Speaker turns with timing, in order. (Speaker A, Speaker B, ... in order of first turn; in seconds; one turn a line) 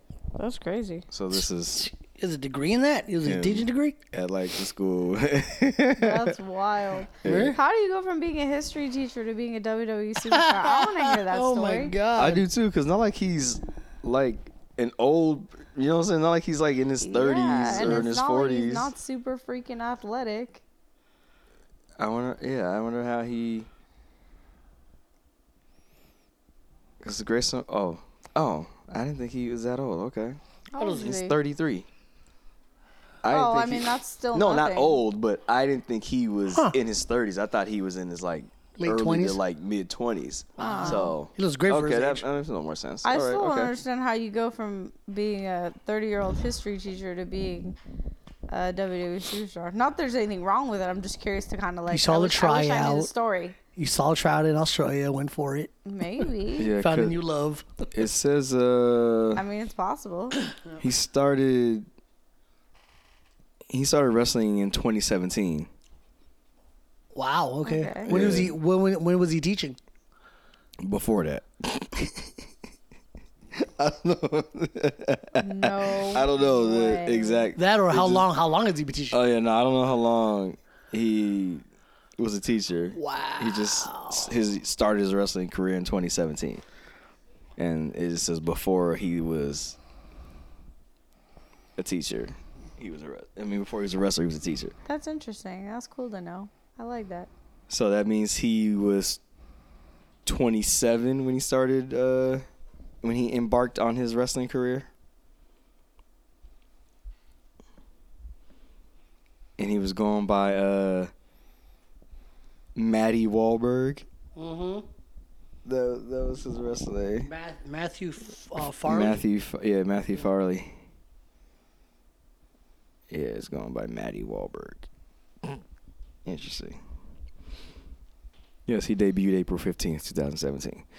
Speaker A: 0.4-1.1
Speaker B: 1.1-1.9
Speaker C: 1.8-4.0
Speaker B: 3.2-6.3
Speaker A: 6.0-12.0
Speaker B: 7.2-7.6
Speaker C: 7.2-7.6
Speaker C: 10.2-12.4
Speaker B: 12.2-18.9
Speaker A: 17.0-20.6
Speaker C: 17.8-18.1
Speaker B: 22.0-23.7
Speaker B: 27.0-31.9
Speaker A: 30.7-31.4
Speaker B: 33.2-43.7
Speaker A: 33.3-35.0
Speaker C: 38.8-39.4
Speaker C: 40.6-42.2
Speaker A: 40.6-41.1
Speaker A: 43.0-47.8
Speaker A: 48.5-53.6
Speaker C: 51.9-53.1
Speaker C: 53.8-55.7
Speaker A: 55.9-56.7
Speaker B: 56.6-57.2
Speaker C: 56.8-57.8
Speaker B: 57.9-59.4
Speaker A: 59.3-60.5
Speaker B: 60.8-61.9
Speaker B: 63.7-65.7
Speaker C: 67.1-69.8
Speaker A: 67.7-68.3
Speaker B: 68.1-68.5
Speaker B: 70.8-72.3
Speaker B: 73.5-78.3
Speaker A: 75.4-77.5
Speaker C: 77.5-79.2
Speaker B: 79.1-81.6
Speaker B: 82.2-86.6
Speaker C: 83.0-84.3
Speaker B: 87.6-89.8
Speaker B: 91.8-94.7
Speaker A: 94.8-97.3
Speaker B: 97.7-99.2
Speaker B: 100.2-102.4
Speaker B: 103.0-104.9
Speaker B: 109.6-111.1
Speaker B: 112.7-114.0
Speaker C: 114.3-114.8
Speaker B: 115.7-117.3
Speaker C: 117.2-119.2
Speaker B: 118.8-120.8
Speaker B: 123.1-124.8
Speaker B: 126.2-126.8
Speaker B: 128.7-130.8